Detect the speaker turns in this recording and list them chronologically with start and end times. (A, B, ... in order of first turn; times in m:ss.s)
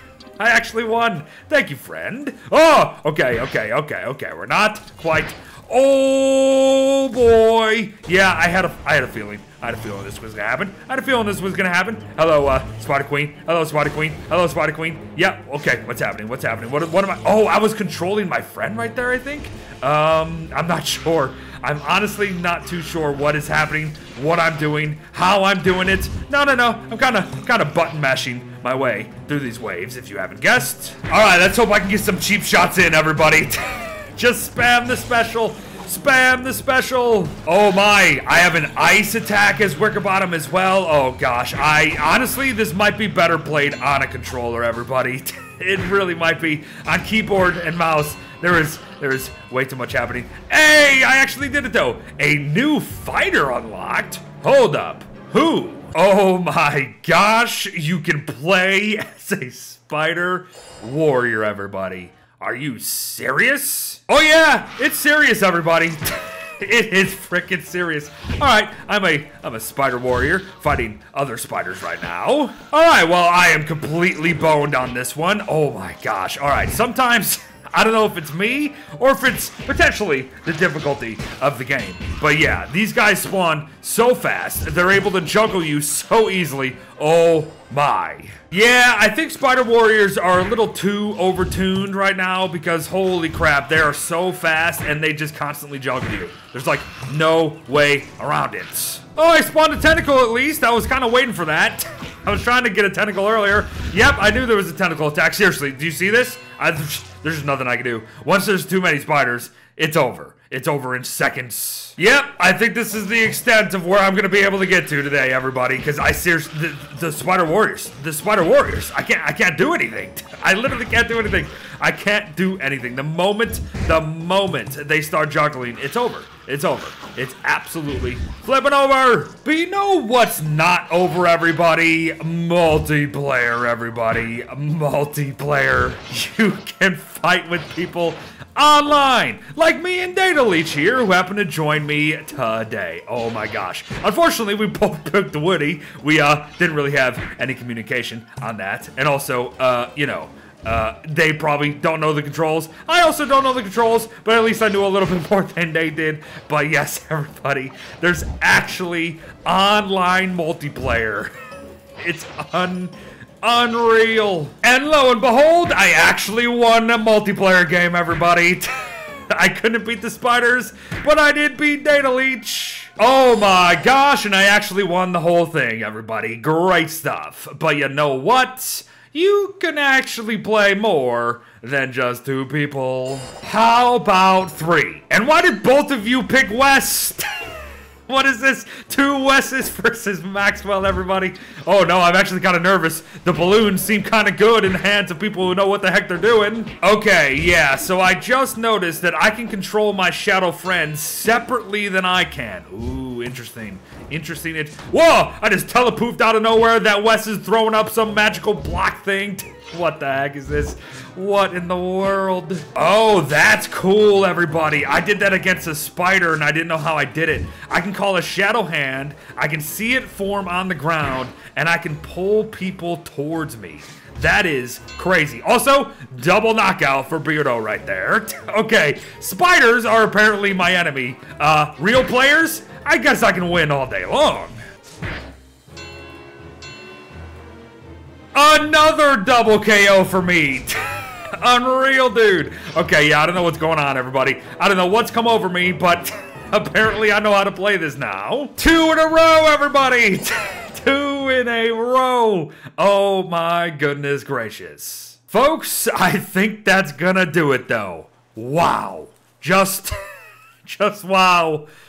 0:00.4-2:41.3 A
2:42.0-3:54.6 A
3:58.3-4:20.0 A
4:20.6-4:21.7 A